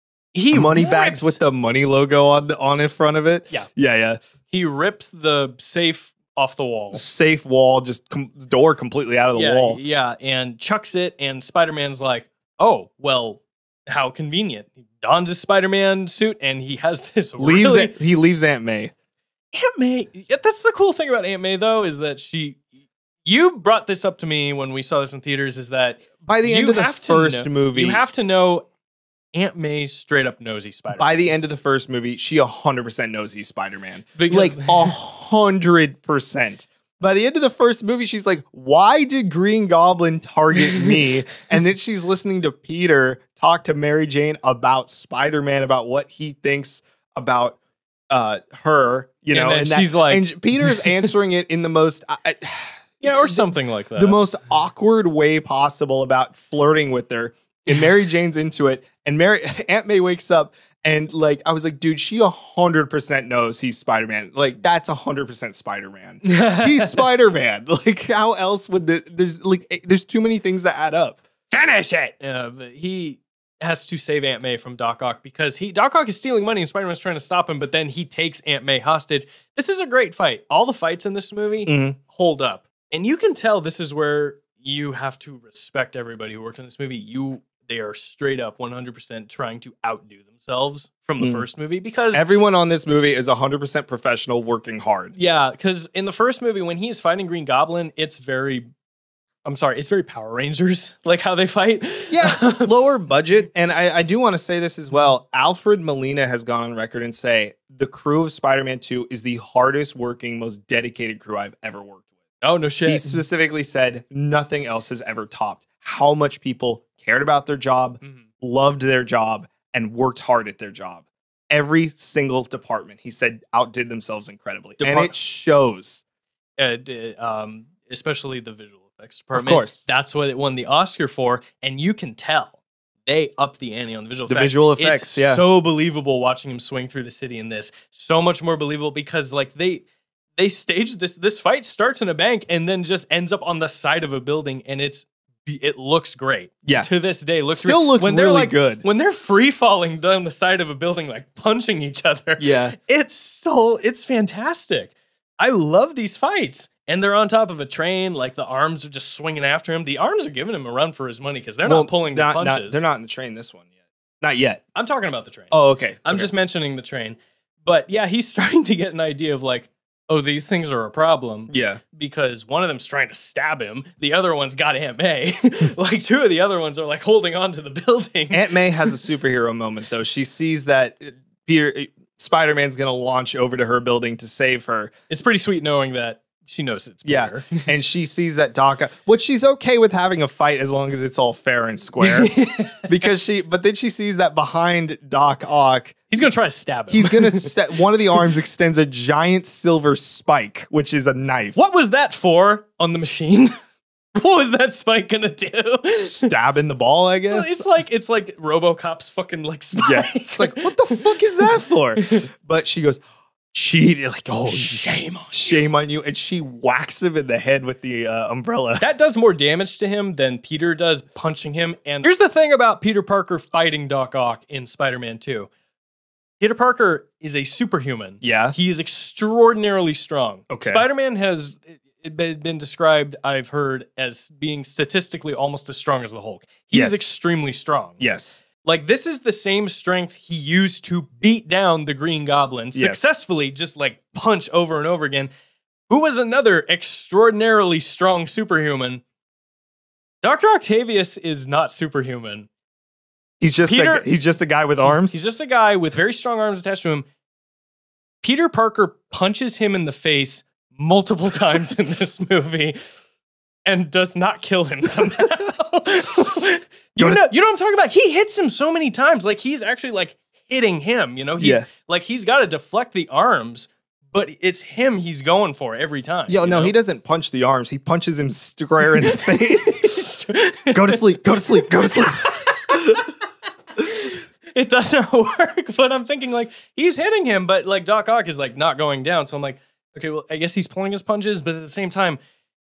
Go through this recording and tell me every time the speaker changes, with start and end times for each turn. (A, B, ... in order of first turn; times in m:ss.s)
0:00.3-0:01.4 A
0:00.5-0:04.2 B
0:04.5-0:07.0 A
0:06.9-0:09.8 B
0:09.3-0:17.9 A
0:17.4-0:18.9 B
0:19.5-0:22.6 A
0:23.2-0:28.7 A
0:26.2-0:28.0 B
0:29.3-0:31.1 A
0:30.9-0:47.6 B
0:34.2-0:34.9 A
0:40.7-0:41.0 A
0:48.1-1:11.2 B
0:49.3-0:51.1 A
0:53.0-0:54.2 A
1:06.2-1:07.0 A
1:11.5-1:32.2 A
1:21.6-1:22.0 B
1:31.2-1:31.4 B
1:32.1-1:35.1 B
1:35.1-1:38.7 A
1:39.4-1:42.7 A
1:42.1-1:52.0 B
1:52.4-1:53.2 A
1:52.8-2:06.0 B
2:04.8-2:05.1 A
2:06.6-2:19.8 A
2:09.3-2:09.8 B
2:14.3-2:15.4 B
2:20.4-2:42.8 A
2:27.5-2:28.8 B
2:32.4-2:32.7 B
2:41.6-2:43.6 B
2:44.2-2:44.6 B
2:44.7-2:58.4 A
2:45.5-2:46.3 B
2:51.5-2:51.8 B
2:58.3-3:04.9 B
3:05.1-3:07.6 A
3:07.0-3:12.3 B
3:12.0-3:13.0 A
3:12.9-3:16.1 B
3:16.1-3:17.5 A
3:16.9-3:21.6 B
3:21.5-3:23.5 A
3:24.1-3:26.3 A
3:26.1-3:27.7 B
3:27.2-3:31.4 A
3:29.8-3:33.0 B
3:32.0-3:32.3 A
3:33.5-3:34.8 B
3:34.4-3:35.7 A
3:35.3-3:38.9 B
3:38.8-3:45.5 A
3:46.4-3:58.0 A
3:48.2-3:48.6 B
3:50.5-3:50.8 B
3:56.7-3:57.0 B
3:58.0-3:58.4 B
3:58.6-4:05.3 A
4:02.7-4:03.0 B
4:05.9-4:09.0 A
4:10.2-4:12.5 A
4:13.4-4:15.2 B
4:13.7-4:14.0 A
4:15.0-4:17.1 A
4:18.2-4:22.8 A
4:23.6-4:36.7 A
4:27.0-4:27.2 B
4:31.4-4:31.6 B
4:36.3-4:40.0 B
4:39.0-4:41.0 A
4:40.7-4:43.1 B
4:41.6-4:42.8 A
4:43.8-4:52.2 A